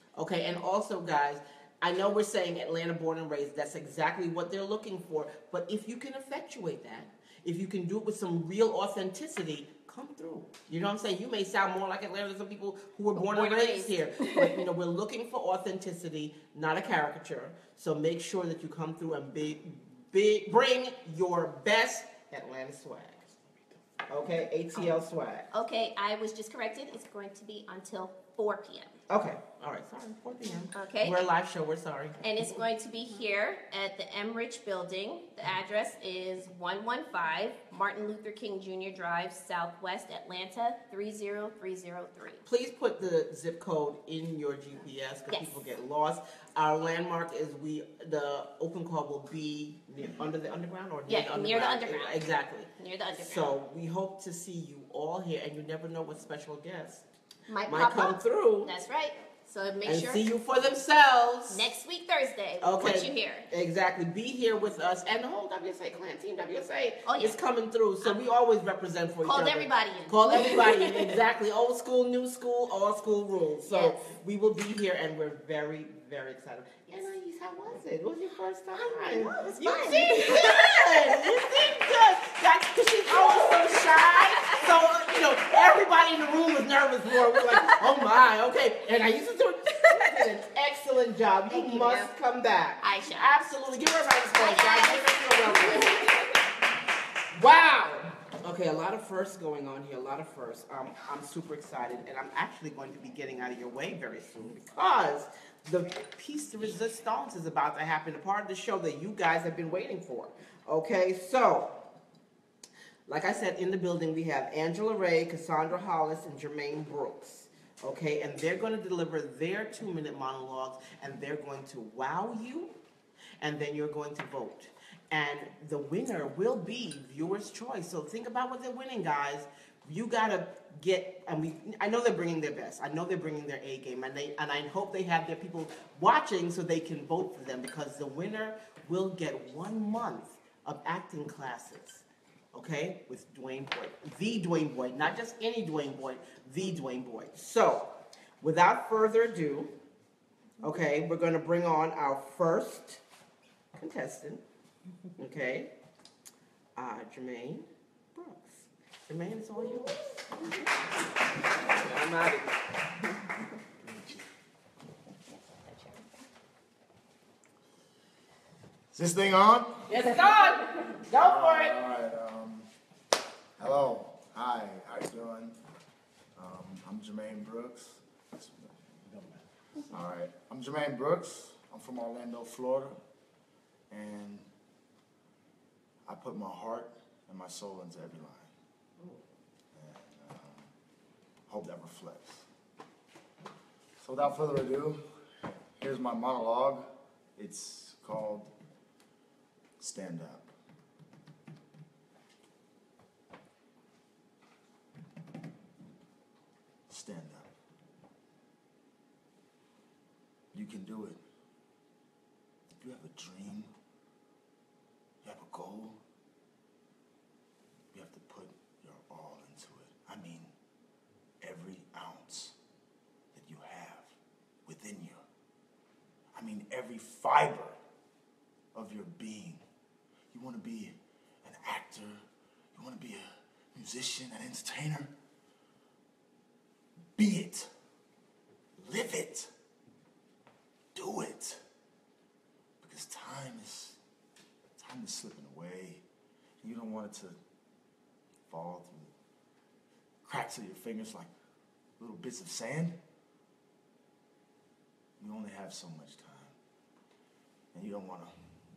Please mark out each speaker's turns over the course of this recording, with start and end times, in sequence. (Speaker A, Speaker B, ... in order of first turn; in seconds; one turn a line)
Speaker A: 0.1-23.3
Speaker B: 13.2-14.6
Speaker A: 24.1-25.5
Speaker B: 25.5-28.9
Speaker A: 29.1-32.2
Speaker B: 30.7-31.2
Speaker B: 32.2-42.4
Speaker A: 42.4-57.0
Speaker B: 45.3-45.6
Speaker B: 51.1-53.5
Speaker B: 57.5-60.3
Speaker A: 57.7-58.7
Speaker A: 59.8-61.7
Speaker B: 61.5-63.5
Speaker A: 62.6-96.2
Speaker B: 67.0-67.4
Speaker B: 69.2-71.2
Speaker B: 73.7-74.0
Speaker B: 79.1-81.5
Speaker B: 83.1-84.7
Speaker B: 87.4-87.8
Speaker B: 91.5-92.1
Speaker B: 92.8-93.3
Speaker B: 94.3-96.4
Speaker A: 97.3-111.7
Speaker A: 113.1-122.7
Speaker A: 123.4-149.7
Speaker A: 150.6-153.0
Speaker A: 153.7-154.4
Speaker A: 155.2-155.7
Speaker A: 156.8-159.9
Speaker A: 161.6-162.5
Speaker B: 165.3-166.2
Speaker C: 168.9-169.9
Speaker A: 169.9-171.8
Speaker C: 171.2-172.7
Speaker C: 173.6-175.6
Speaker C: 176.3-179.3
Speaker C: 179.9-183.0
Speaker C: 183.9-184.5
Speaker C: 186.1-188.5
Speaker C: 189.7-190.7
Speaker C: 191.5-192.4
Speaker C: 194.0-195.0
Speaker C: 195.8-196.8
Speaker C: 197.3-198.5
Speaker C: 199.8-200.5
Speaker C: 206.9-207.5
Speaker C: 210.5-211.2
Speaker C: 212.7-213.7
Speaker C: 215.2-216.0
Speaker C: 217.9-220.5
Speaker C: 221.4-222.6
Speaker C: 223.3-225.2
Speaker C: 226.3-227.8
Speaker C: 228.7-229.6
Speaker C: 230.3-232.2
Speaker C: 232.7-235.1
Speaker C: 237.2-237.7
Speaker C: 238.8-239.5
Speaker C: 240.9-241.6
Speaker C: 242.8-244.0
Speaker C: 244.8-246.0
Speaker C: 246.6-247.4
Speaker C: 248.5-249.1
Speaker C: 250.2-251.3
Speaker C: 252.0-253.0
Speaker C: 255.2-256.5
Speaker C: 257.7-258.3